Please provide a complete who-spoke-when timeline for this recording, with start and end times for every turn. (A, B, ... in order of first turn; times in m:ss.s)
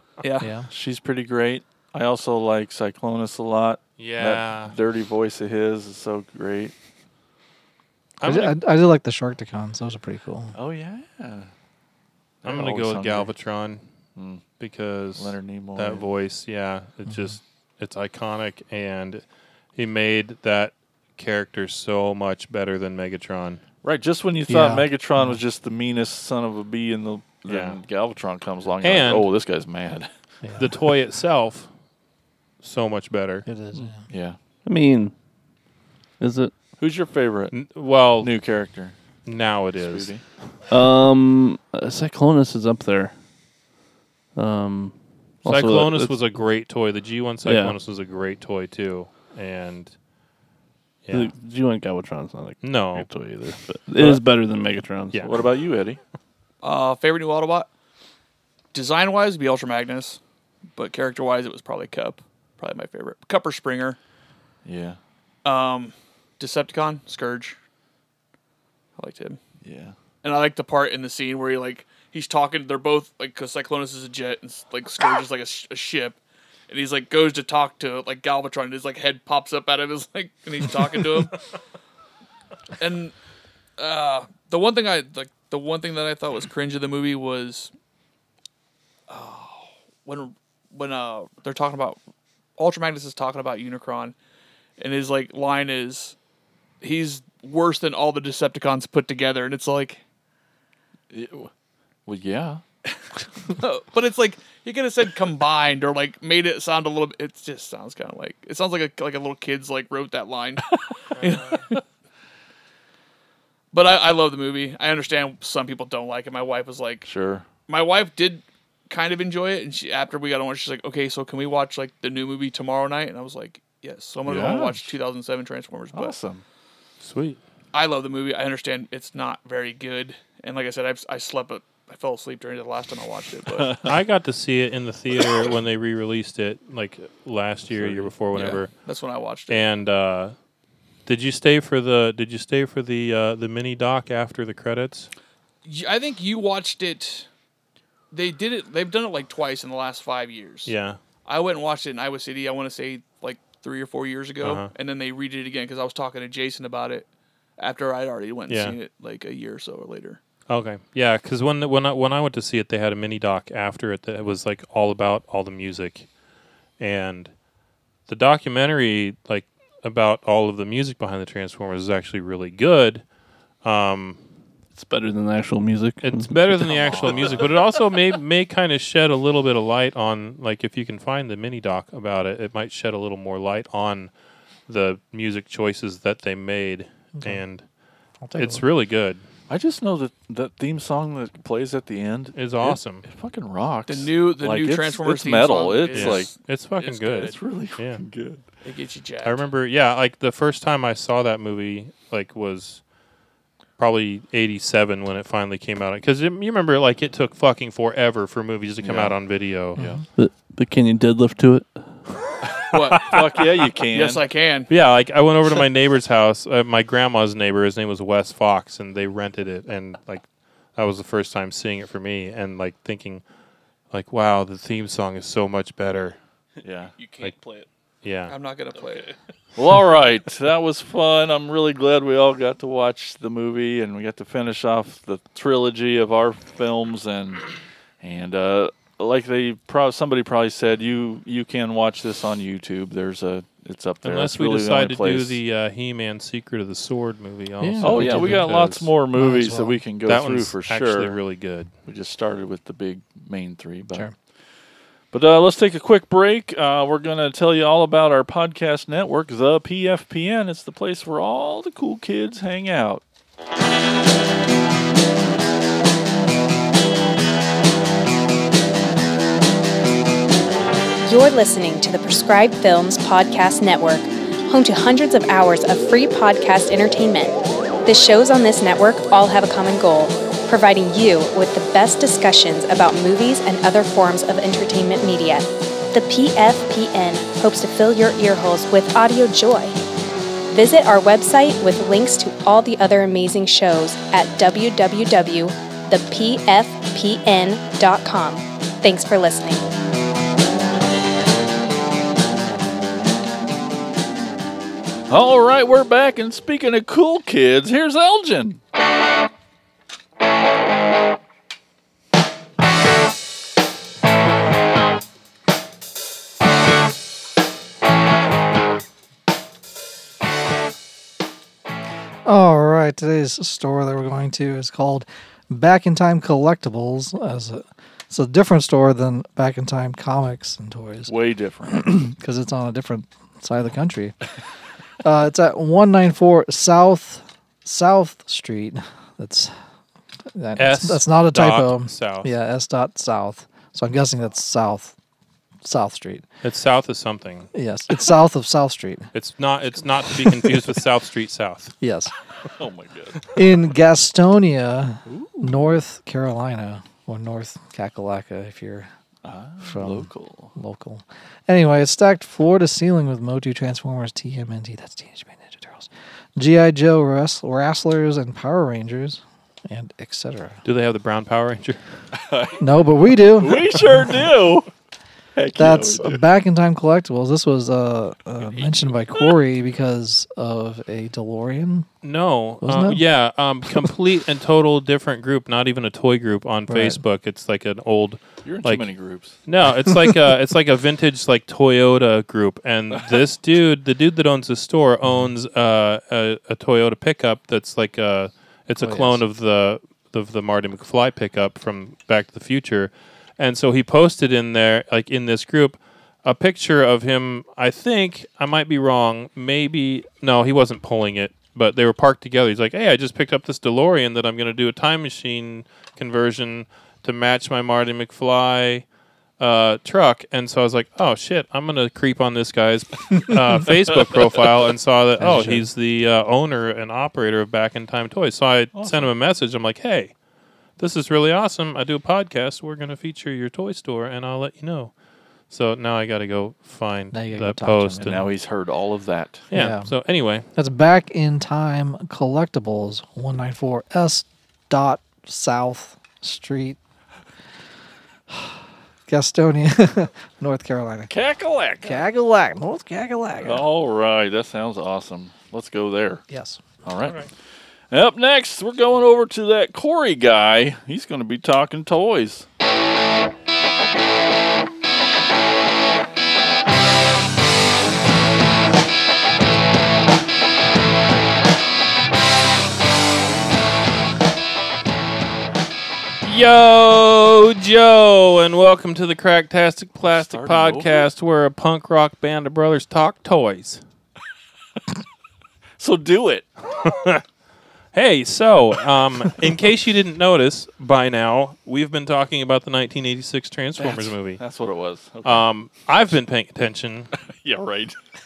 0:00.2-0:00.5 A
0:00.4-0:00.7 B
0:00.7-0:06.7 C
0:04.0-0:04.7 D
0:08.2-0:08.5 D
0:08.2-0:10.6 B
0:10.5-0:11.5 C
0:12.4-0:13.3 C
0:12.4-0:13.8 D
0:14.2-0:14.4 C
0:14.6-0:19.2 D
0:15.2-0:16.0 C
0:19.8-0:23.6 D
0:23.8-0:30.1 C
0:24.5-0:25.4 B
0:27.4-0:27.8 D
0:28.8-0:29.3 D
0:30.4-0:30.7 B
0:30.6-0:31.7 D
0:32.6-0:33.4 D
0:33.4-0:34.0 B
0:33.8-0:34.4 C
0:34.6-0:35.1 E
0:36.2-0:36.5 E
0:36.8-0:37.6 C
0:37.5-0:38.3 D
0:38.2-0:39.0 C
0:39.2-0:40.1 D
0:39.8-0:40.2 C
0:40.7-0:43.1 E
0:44.3-0:46.2 E
0:45.4-0:49.9 D
0:47.4-0:47.8 E
0:51.0-0:51.3 D
0:51.1-0:55.3 E
0:52.6-0:53.1 D
0:55.2-0:56.0 C
0:56.6-0:57.7 A
0:58.7-1:00.2 A
1:00.8-1:04.0 A
1:04.6-1:05.0 C
1:05.4-1:07.6 A
1:09.0-1:09.4 A
1:09.6-1:09.9 C
1:10.2-1:21.4 A
1:22.8-1:23.1 A
1:23.8-1:27.7 A
1:29.1-1:32.0 A
1:32.6-1:34.1 A
1:34.8-1:36.2 A
1:36.8-1:40.0 A
1:41.1-1:41.5 C
1:42.0-1:42.6 C
1:43.5-1:51.8 A
1:51.1-1:51.6 D
1:53.7-1:57.1 A
1:57.0-1:57.5 C
1:57.7-2:06.2 A
2:04.2-2:04.9 C
2:05.9-2:06.4 C
2:07.0-2:07.4 D
2:07.7-2:13.8 A
2:13.8-2:18.7 D
2:17.7-2:18.1 C
2:18.3-2:19.6 A
2:19.5-2:20.3 D
2:21.0-2:25.1 D
2:25.6-2:27.3 A
2:28.1-2:30.7 A
2:30.6-2:31.0 D
2:31.2-2:40.2 A
2:34.4-2:34.7 D
2:38.5-2:38.8 D
2:40.5-2:46.1 D
2:46.8-2:47.3 D
2:48.1-2:53.0 D
2:53.6-2:54.2 D
2:54.7-2:57.6 E
2:56.0-3:04.1 D
2:56.7-2:57.4 C
3:04.7-3:07.6 D
3:07.2-3:07.4 B
3:08.2-3:08.6 B
3:08.3-3:09.2 D
3:09.5-3:16.3 C
3:12.3-3:13.0 D
3:13.9-3:17.4 A
3:15.9-3:18.0 D
3:17.2-3:18.4 C
3:18.6-3:19.5 A
3:19.2-3:22.8 D
3:23.8-3:29.8 D
3:28.8-3:29.2 C
3:29.8-3:30.0 B
3:30.2-3:32.0 E
3:32.7-3:33.2 A
3:32.9-3:33.2 D
3:33.1-3:34.2 C
3:33.9-3:34.7 A
3:34.7-3:40.2 D
3:40.7-3:43.2 D
3:43.9-3:46.2 D
3:46.6-3:46.9 C
3:47.0-3:47.7 E
3:48.0-3:48.3 D
3:48.3-3:49.1 A
3:48.7-3:49.2 E
3:49.6-4:05.4 C
4:04.0-4:08.9 D
4:07.6-4:08.5 B
4:07.8-4:11.2 C
4:09.1-4:09.8 B
4:10.0-4:11.7 D
4:11.8-4:14.1 C
4:15.1-4:23.0 C
4:31.0-4:49.7 F
4:50.5-4:59.6 F
5:05.1-5:08.6 C
5:22.2-5:31.1 B
5:31.1-5:32.0 C
5:31.6-5:34.2 B
5:35.0-5:39.5 B
5:40.3-5:44.9 B
5:40.6-5:42.3 D
5:45.6-5:46.2 B
5:46.4-5:47.5 D
5:47.5-5:49.1 B
5:49.1-5:51.7 D
5:50.0-5:50.6 B
5:51.8-5:52.1 B
5:52.6-5:53.3 C
5:53.3-5:58.9 B
5:55.1-5:55.6 C
5:59.2-6:00.5 C
5:59.6-6:10.6 B
6:10.6-6:11.8 D
6:12.1-6:12.7 C
6:12.6-6:14.2 B
6:13.3-6:14.7 C
6:15.3-6:16.2 C
6:15.5-6:21.9 B
6:22.0-6:28.9 D
6:22.6-6:23.0 B
6:26.7-6:27.0 B
6:28.4-6:29.4 C
6:29.4-6:58.8 D
6:38.8-6:39.2 B
6:59.4-7:10.1 D
7:05.2-7:05.7 B
7:08.7-7:09.1 C
7:10.8-7:14.9 D
7:15.5-7:18.2 D
7:17.1-7:18.3 B
7:18.0-7:19.5 C
7:19.5-7:20.5 D
7:19.5-7:19.9 B
7:20.5-7:26.8 B
7:28.3-7:31.1 B
7:31.1-7:32.0 C
7:31.8-7:33.6 B
7:33.4-7:36.2 C
7:36.3-7:36.7 B
7:36.8-7:37.3 C
7:37.9-7:42.4 C
7:56.2-8:03.8 D
8:00.0-8:01.1 C
8:05.8-8:06.5 C
8:06.8-8:07.2 D
8:07.9-8:14.4 D
8:13.8-8:14.1 B
8:14.4-8:15.5 C
8:15.2-8:17.1 D
8:17.2-8:18.0 C